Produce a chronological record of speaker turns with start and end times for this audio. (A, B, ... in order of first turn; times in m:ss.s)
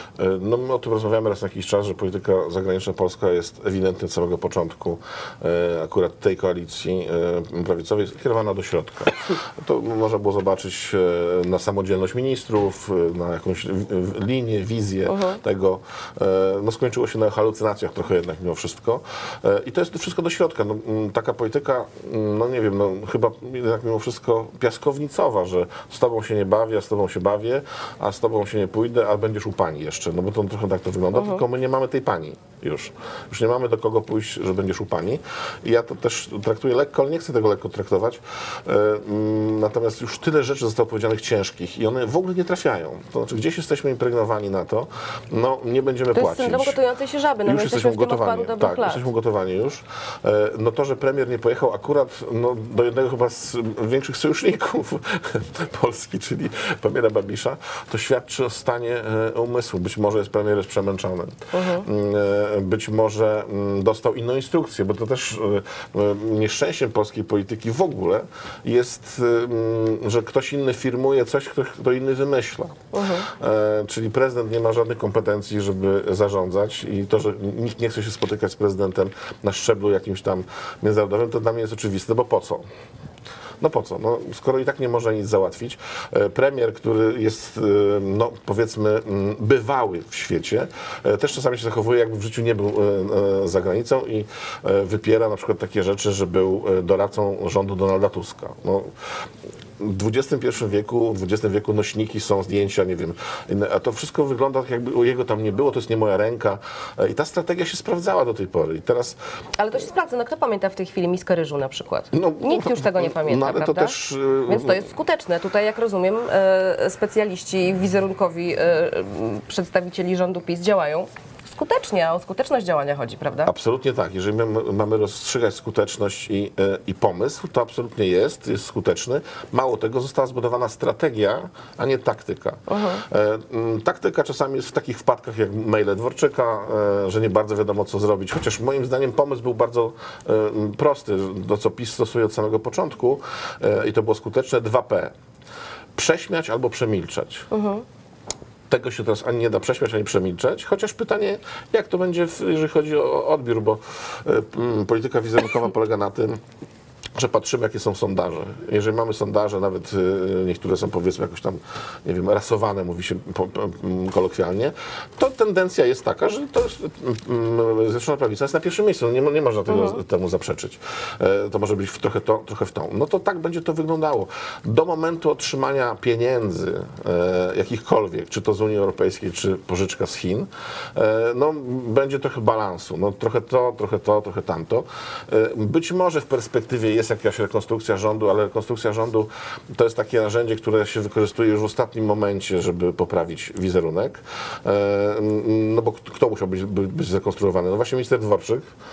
0:00.2-0:46.8 A
0:15.0-0:15.4 B
0:31.1-0:31.4 B
0:46.1-0:49.0 B
0:47.4-1:12.7 A
1:01.5-1:01.8 B
1:12.9-1:13.3 B
1:13.4-1:22.6 A
1:23.6-1:38.9 A
1:39.8-1:49.2 A
1:49.6-1:54.0 B
1:52.1-1:54.9 A
1:54.5-2:03.5 B
2:03.4-2:25.1 A
2:12.7-2:13.0 B
2:26.0-2:27.4 A
2:27.5-2:27.8 B
2:28.7-2:36.4 A
2:37.1-3:18.6 A
2:49.7-2:50.0 B